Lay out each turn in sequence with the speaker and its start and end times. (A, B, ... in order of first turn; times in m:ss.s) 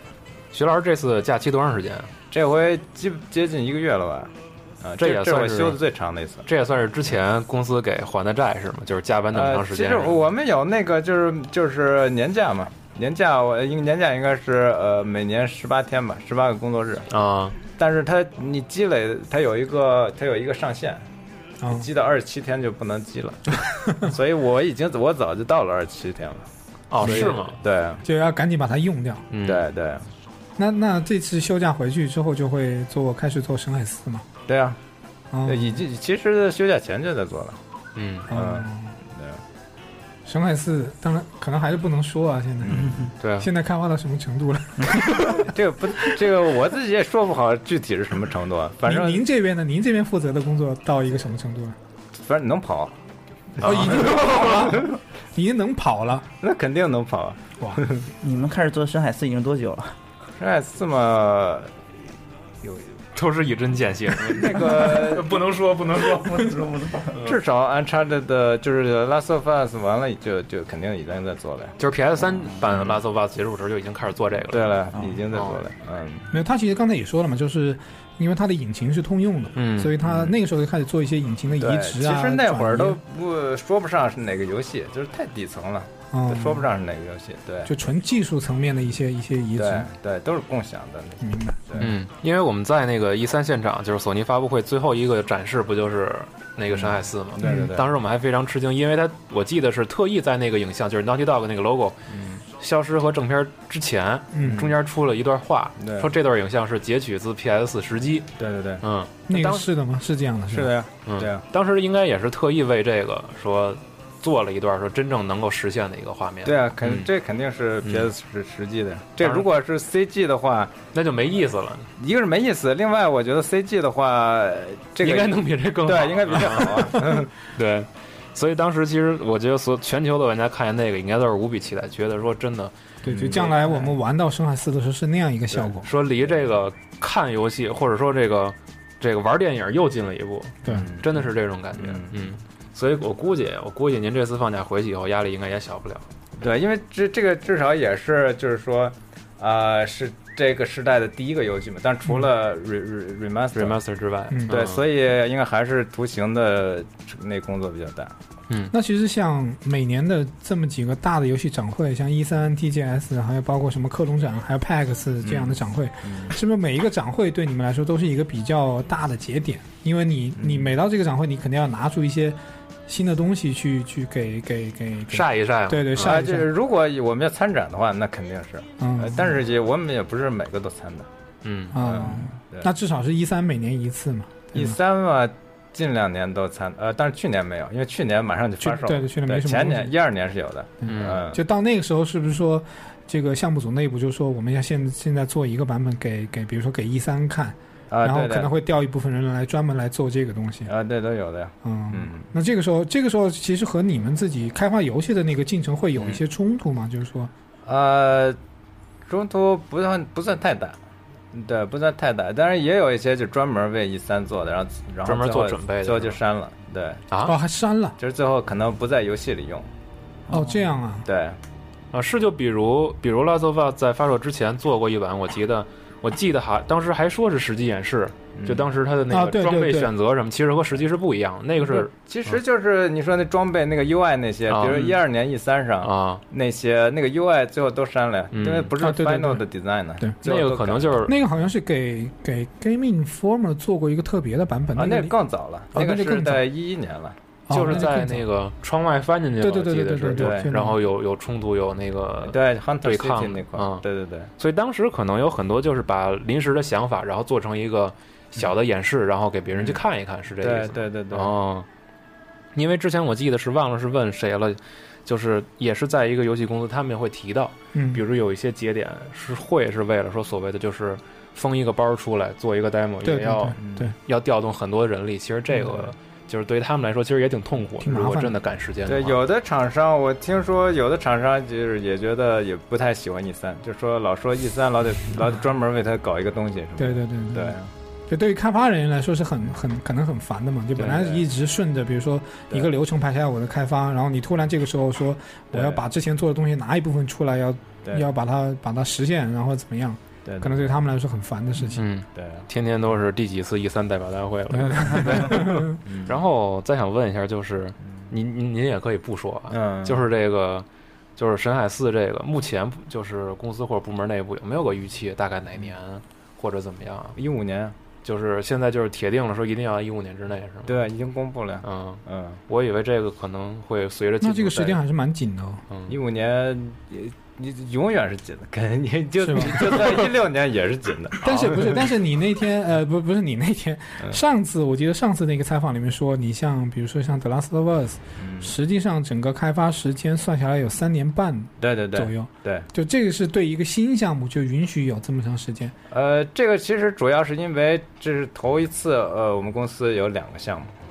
0:00.5-0:02.1 A
0:02.3-0:06.5 B
0:05.0-0:05.8 A
0:06.5-0:10.2 A
0:09.3-0:17.1 B
0:17.1-0:17.6 A
0:17.8-0:21.0 B
0:21.6-0:21.9 C
0:21.7-0:26.5 B
0:26.9-0:27.6 A
0:27.0-0:28.0 B
0:27.0-0:27.4 C
0:28.0-0:29.2 C
0:29.3-0:29.6 A
0:29.4-0:30.0 B
0:30.6-0:34.2 C
0:34.5-0:34.8 B
0:35.3-0:35.8 C
0:35.4-0:37.6 B
0:38.0-0:38.3 A
0:38.3-0:38.9 C
0:38.3-0:39.4 B
0:40.2-0:45.5 C
0:42.6-0:43.1 B
0:43.2-0:43.5 A
0:45.2-0:49.2 B
0:48.8-0:51.8 C
0:52.1-0:52.9 B
0:53.6-0:54.9 B
0:53.6-0:56.3 C
0:53.6-0:54.3 A
0:56.4-0:58.0 B
0:58.2-1:00.0 D
1:00.4-1:01.7 B
1:02.6-1:03.0 B
1:03.1-1:07.3 A
1:04.3-1:05.4 B
1:06.5-1:07.0 D
1:07.1-1:11.8 B
1:11.8-1:15.6 A
1:12.6-1:13.0 B
1:14.5-1:16.3 B
1:16.3-1:23.0 C
1:19.6-1:19.9 A
1:20.0-1:20.3 B
1:21.5-1:27.7 B
1:26.1-1:26.7 C
1:27.7-1:29.9 C
1:29.6-1:31.9 B
1:31.2-1:31.9 C
1:31.8-1:42.0 A
1:36.7-1:37.9 B
1:37.4-1:37.7 C
1:42.1-1:42.4 B
1:42.6-1:48.3 A
1:44.3-1:44.7 C
1:44.4-1:44.7 B
1:45.8-1:46.1 B
1:48.4-1:48.8 B
1:48.8-1:49.7 A
1:49.3-1:50.7 C
1:50.5-1:51.4 B
1:51.0-1:57.1 A
1:56.4-2:00.8 B
1:59.2-1:59.5 A
2:00.9-2:01.9 A
2:02.0-2:07.3 B
2:05.0-2:12.7 A
2:13.0-2:15.9 C
2:13.0-2:13.9 B
2:15.8-2:26.0 A
2:20.6-2:22.2 B
2:26.4-2:33.8 B
2:33.5-2:34.8 A
2:34.3-2:34.6 C
2:34.5-2:38.1 B
2:38.7-2:56.5 C
2:45.2-2:46.3 B
2:50.4-2:50.7 B
2:55.1-2:56.2 A
2:55.9-3:01.1 B
2:58.8-2:59.2 C
3:01.4-3:01.8 A
3:01.7-3:04.8 C
3:01.7-3:02.7 B
3:04.5-3:11.4 B
3:08.6-3:09.9 C
3:10.8-3:20.7 C
3:10.8-3:11.2 A
3:17.9-3:18.5 B
3:20.7-3:22.3 B
3:21.6-3:27.3 C
3:26.0-3:26.2 B
3:27.6-3:28.4 B
3:29.1-3:30.8 B
3:31.3-3:37.0 B
3:35.0-3:36.2 A
3:37.2-3:38.0 C
3:38.0-3:39.7 B
3:40.3-3:41.0 C
3:41.0-3:41.4 B
3:41.9-3:52.4 A
3:48.4-3:48.7 B
3:49.1-3:49.9 C
3:51.6-4:01.0 B
3:54.5-3:55.0 A
3:55.8-3:56.2 A
3:58.3-3:58.7 A
3:58.8-3:59.4 C
4:00.0-4:00.3 C
4:00.2-4:01.2 A
4:01.0-4:05.1 C
4:04.8-4:07.2 B
4:05.7-4:06.5 C
4:07.5-4:08.2 C
4:07.5-4:13.8 A
4:09.4-4:10.8 C
4:10.1-4:10.5 B
4:12.2-4:14.3 B
4:14.4-4:21.7 A
4:19.5-4:19.8 B
4:20.4-4:21.3 B
4:22.5-4:39.2 A
4:27.7-4:28.0 C
4:33.0-4:33.9 C
4:33.6-4:33.9 B
4:37.8-4:38.4 C
4:38.8-4:47.7 B
4:46.8-4:47.6 C
4:48.1-5:01.8 C
4:50.8-4:51.2 B
4:55.5-4:55.8 B
5:00.2-5:00.8 B
5:01.8-5:10.6 A
5:02.1-5:02.5 B
5:04.5-5:05.8 C
5:05.8-5:06.1 B
5:09.5-5:10.0 B
5:11.2-5:17.2 A
5:17.2-5:17.8 B
5:18.0-5:20.7 A
5:20.7-5:22.4 B
5:21.6-5:24.8 A
5:24.2-5:25.6 C
5:25.9-5:31.8 B
5:29.2-5:30.1 C
5:31.2-5:45.7 C
5:38.2-5:38.6 B
5:41.6-5:42.7 B
5:45.9-5:50.7 B